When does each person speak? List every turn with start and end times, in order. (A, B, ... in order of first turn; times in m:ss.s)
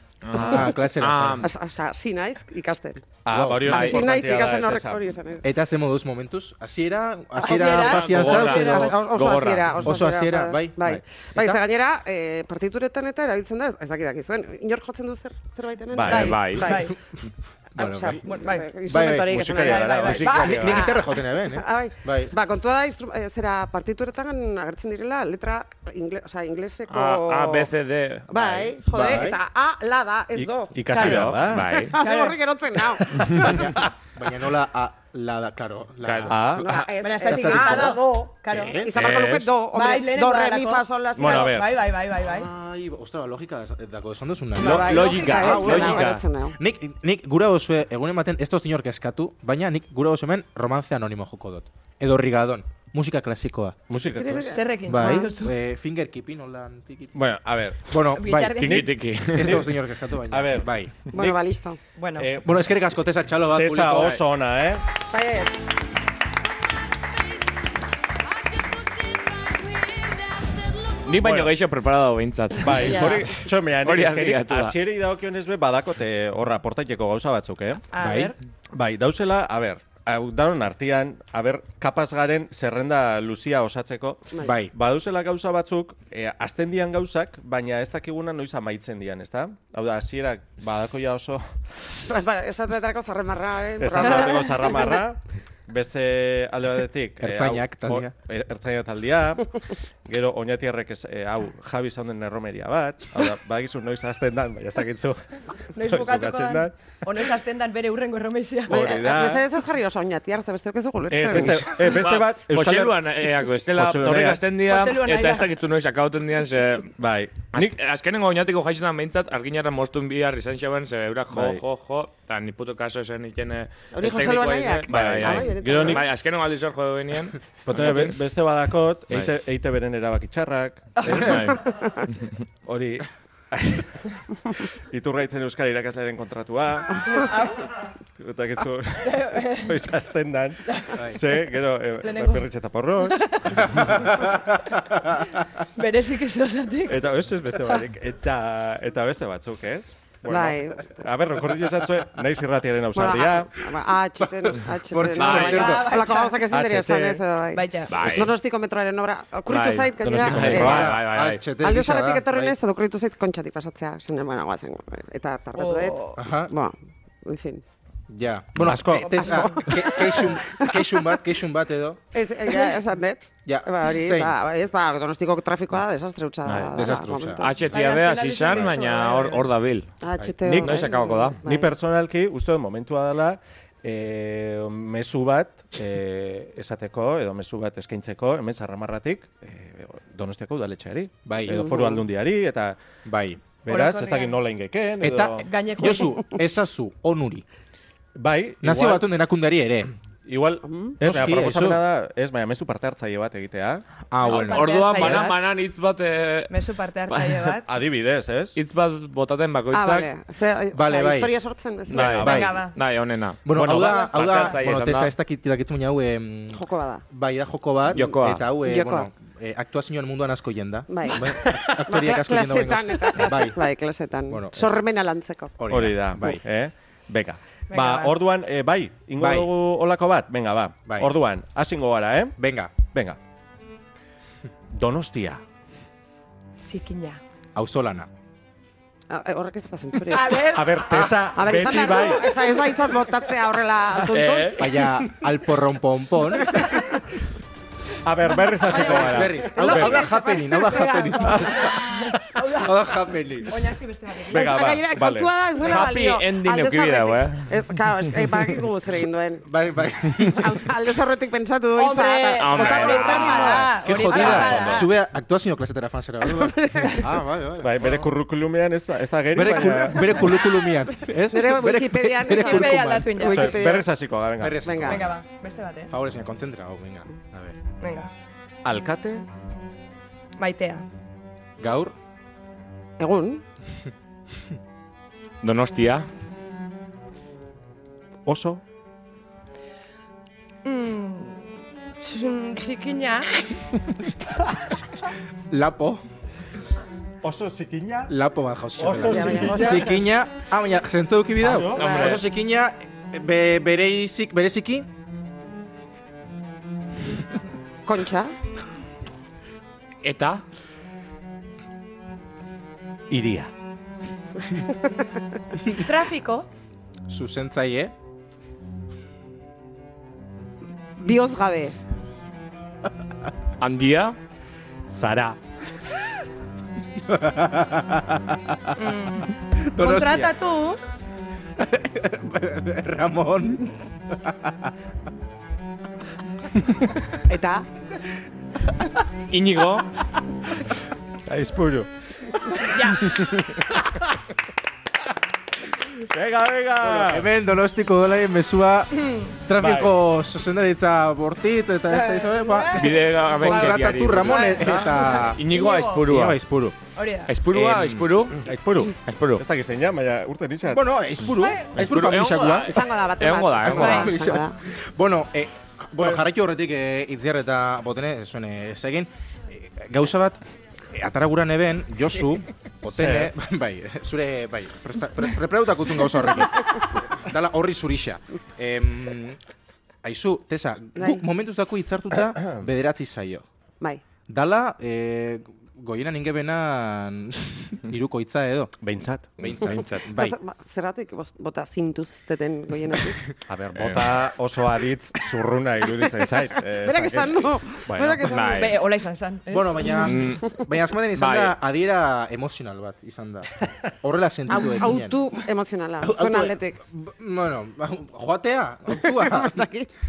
0:00.2-0:01.5 A
0:00.3-0:01.5 B
0:00.3-0:00.7 C
0:01.4-0:03.0 D
0:03.2-0:05.1 C
0:03.3-0:04.1 B
0:03.7-0:05.4 D
0:03.7-0:04.1 A
0:05.4-0:11.6 B
0:07.4-0:16.9 D
0:07.4-0:09.1 E
0:07.6-0:09.7 A
0:15.9-0:16.4 C
0:16.1-0:17.0 E
0:16.1-0:16.7 A
0:17.8-0:18.2 B
0:17.8-0:27.7 D
0:18.2-0:18.8 E
0:18.8-0:19.4 B
0:19.3-0:20.2 C
0:19.5-0:20.9 A
0:19.8-0:20.8 E
0:20.3-0:22.3 B
0:26.9-0:28.8 A
0:28.3-0:33.6 D
0:28.9-0:29.4 B
0:30.4-0:31.7 C
0:30.9-0:32.4 E
0:31.0-0:32.0 A
0:33.0-0:33.8 C
0:33.4-0:39.0 B
0:36.0-0:36.4 A
0:36.3-0:36.7 C
0:36.6-0:41.6 D
0:37.0-0:38.9 E
0:39.0-0:39.5 A
0:39.7-0:42.5 E
0:41.2-0:41.8 C
0:42.2-0:53.8 B
0:44.6-0:46.6 D
0:44.6-0:46.2 A
0:44.8-0:46.1 E
0:53.9-0:54.5 C
0:54.2-0:55.3 D
0:54.4-0:55.6 E
0:54.9-0:57.2 B
0:57.2-0:58.0 C
0:57.9-1:00.9 B
0:58.2-0:58.9 E
0:58.6-0:59.6 A
0:58.7-0:59.7 C
1:00.3-1:01.4 C
1:01.1-1:01.8 D
1:02.0-1:02.3 E
1:02.2-1:02.7 C
1:02.4-1:04.2 B
1:03.5-1:04.8 C
1:05.1-1:05.6 D
1:11.0-1:14.8 A
1:11.2-1:11.5 C
1:12.6-1:17.8 C
1:12.7-1:13.3 D
1:17.9-1:18.4 E
1:18.0-1:18.3 B
1:18.7-1:31.5 C
1:24.4-1:24.7 B
1:32.1-1:34.9 D
1:33.8-1:47.0 C
1:37.2-1:38.1 B
1:45.8-1:48.9 E
1:48.7-1:51.9 D
1:48.7-1:49.4 C
1:51.1-1:54.5 C
1:51.8-1:56.9 A
1:54.6-1:55.6 E
1:57.0-1:57.8 C
1:57.5-2:08.2 A
2:01.3-2:01.6 C
2:03.9-2:06.0 D
2:04.9-2:06.1 C
2:07.7-2:11.4 C
2:11.0-2:11.4 E
2:11.1-2:12.4 A
2:12.6-2:14.0 C
2:14.9-2:17.3 C
2:17.1-2:17.8 E
2:18.2-2:23.9 C
2:19.0-2:19.8 E
2:20.7-2:21.0 E
2:22.0-2:22.4 E
2:23.0-2:23.6 E
2:23.6-2:24.6 B
2:25.7-2:27.1 E
2:26.9-2:33.6 C
2:30.3-2:30.9 D
2:32.9-2:40.9 D
2:34.2-2:35.9 B
2:35.2-2:35.7 A
2:35.3-2:36.5 E
2:36.5-2:37.2 C
2:37.5-2:38.0 E
2:37.9-2:38.4 A
2:39.5-2:41.4 A
2:40.0-2:41.0 C
2:40.2-2:42.6 B
2:41.6-2:47.6 D
2:45.6-2:46.2 E
2:46.2-2:46.5 B
2:48.1-2:52.0 B
2:48.6-2:49.6 C
2:49.0-2:50.2 E
2:49.2-2:50.8 D
2:52.1-2:57.6 D
2:53.5-2:54.3 B
2:56.4-2:59.9 A
2:56.7-2:57.7 B
2:57.7-2:59.5 E
3:00.0-3:01.7 D
3:00.4-3:12.8 C
3:00.5-3:01.4 A
3:11.3-3:11.6 B
3:11.5-3:12.0 D
3:13.0-3:13.4 B
3:13.6-3:15.5 C
3:13.7-3:14.4 E
3:15.0-3:17.4 B
3:15.4-3:16.4 E
3:18.2-3:19.1 C
3:18.6-3:20.0 B
3:20.3-3:23.8 C
3:20.6-3:21.0 D
3:21.0-3:21.9 B
3:24.1-3:25.3 B
3:24.2-3:26.5 A
3:24.2-3:25.4 E
3:26.5-3:27.7 E
3:27.1-3:27.4 A
3:27.6-3:28.6 C
3:28.6-3:30.1 A
3:29.7-3:32.2 D
3:30.7-3:31.3 B
3:31.9-3:35.1 A
3:32.0-3:32.6 C
3:32.0-3:32.7 B
3:32.2-3:32.8 E
3:33.4-3:43.7 B
3:33.5-3:34.1 C
3:34.2-3:34.5 E
3:36.5-3:37.0 D
3:37.9-3:38.5 A
3:38.6-3:39.1 D
3:40.9-3:45.6 D
3:44.3-3:44.8 B
3:45.6-3:46.4 B
3:45.7-3:53.2 C
3:47.7-3:48.2 E
3:49.2-3:49.5 B
3:50.9-3:51.2 B
3:52.4-3:52.7 B
3:54.7-3:55.4 C
3:56.6-3:57.2 E
3:57.6-3:58.1 B
3:59.1-4:00.5 D
4:00.1-4:01.1 E
4:00.5-4:02.4 C
4:01.3-4:04.8 D
4:01.7-4:02.5 E
4:04.0-4:04.5 C
4:04.1-4:04.6 A
4:04.6-4:06.7 B
4:06.4-4:06.9 E
4:08.0-4:10.1 C
4:08.7-4:11.9 B
4:08.7-4:10.0 D
4:09.7-4:12.8 E
4:11.2-4:11.7 C
4:12.6-4:13.7 B
4:13.5-4:14.7 E
4:14.3-4:15.3 C
4:14.3-4:19.5 D
4:15.6-4:17.5 A
4:19.5-4:20.6 B
4:20.2-4:24.5 D
4:21.7-4:24.9 E
4:22.4-4:24.7 A
4:23.8-4:28.1 B
4:26.6-4:27.0 D
4:27.6-4:30.5 C
4:29.3-4:33.4 B
4:31.3-4:33.9 D
4:32.3-4:33.6 E
4:33.3-4:35.0 C
4:34.4-4:35.1 B
4:34.6-4:35.0 D
4:34.8-4:35.9 E
4:35.9-4:37.6 B
4:37.8-4:38.1 E
4:38.6-4:39.3 C
4:40.4-4:40.8 E
4:41.6-4:42.0 B
4:43.0-4:43.4 D
4:45.4-4:46.1 A
4:48.3-4:48.6 C
4:50.6-4:51.5 E
4:52.0-4:53.5 E
4:55.5-4:56.0 B
4:57.2-4:58.1 C
4:58.1-5:04.9 B
4:58.8-5:00.0 C
4:59.0-5:00.0 D
5:01.4-5:02.2 C
5:01.8-5:02.2 A
5:07.8-5:08.4 D
5:10.0-5:10.4 A
5:13.1-5:13.5 C
5:15.7-5:16.5 E
5:17.1-5:17.9 B
5:21.0-5:21.8 D
5:23.6-5:24.2 A
5:24.9-5:25.4 C
5:27.0-5:28.7 B
5:28.8-5:30.8 E
5:29.6-5:30.4 B
5:31.6-5:34.7 B
5:37.3-5:37.7 D
5:39.3-5:39.9 A
5:41.3-5:41.9 C
5:42.4-5:44.0 C
5:46.1-5:47.3 C
5:46.8-5:55.4 B
5:49.6-5:49.9 C
5:51.9-5:56.2 E
5:52.8-5:56.4 A
5:56.1-5:56.8 B
5:56.9-5:57.4 E
5:57.3-5:58.4 A
5:57.5-5:58.1 B
5:58.4-6:00.9 C
5:59.0-5:59.4 A
6:00.7-6:02.8 B
6:01.4-6:01.7 E
6:01.8-6:04.1 A
6:02.7-6:04.6 D
6:03.6-6:10.4 B
6:03.8-6:04.1 E
6:10.9-6:19.4 B
6:12.9-6:13.3 C
6:20.0-6:23.5 B
6:21.0-6:21.2 D
6:24.3-6:28.7 B
6:28.8-6:29.5 C
6:29.4-6:30.4 B
6:29.5-6:30.0 A
6:29.9-6:33.2 D
6:33.5-6:38.4 C
6:33.8-6:34.0 A
6:36.8-6:38.7 D
6:38.2-6:38.8 A
6:38.5-6:40.2 E
6:39.5-6:45.2 B
6:40.0-6:40.6 A
6:41.2-6:41.6 A
6:44.5-6:46.8 D
6:46.0-6:49.7 B
6:48.9-6:49.9 D